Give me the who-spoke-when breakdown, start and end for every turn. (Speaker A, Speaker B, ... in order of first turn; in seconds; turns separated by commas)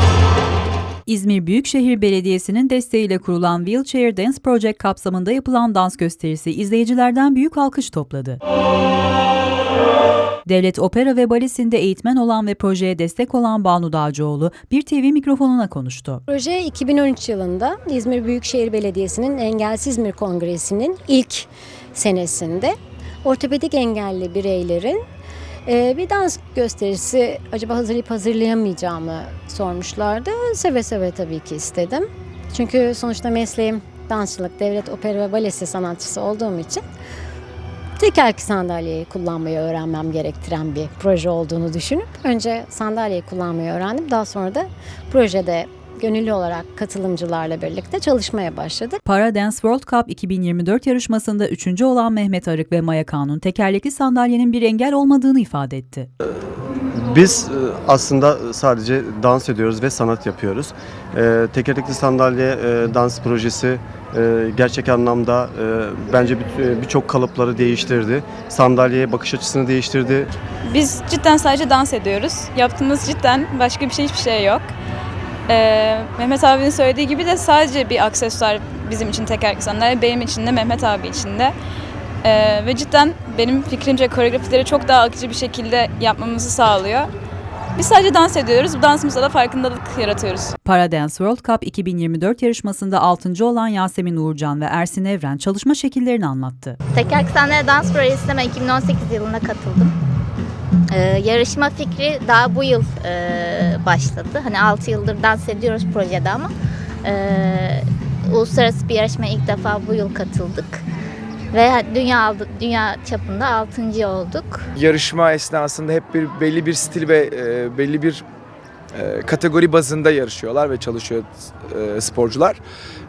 Speaker A: 1.1-8.4, Speaker A: 10.5-16.2, Speaker B: 16.3-25.0, Speaker B: 25.7-36.8, Speaker B: 38.0-49.0, Speaker A: 49.1-56.1, Speaker C: 57.0-70.3, Speaker D: 70.7-74.7, Speaker D: 75.5-81.5, Speaker D: 82.2-87.1, Speaker D: 87.8-90.5, Speaker A: 90.7-96.8, Speaker E: 96.9-99.9, Speaker E: 100.9-106.5, Speaker E: 107.0-110.8, Speaker E: 111.5-114.7, Speaker F: 114.8-118.2, Speaker F: 118.9-122.6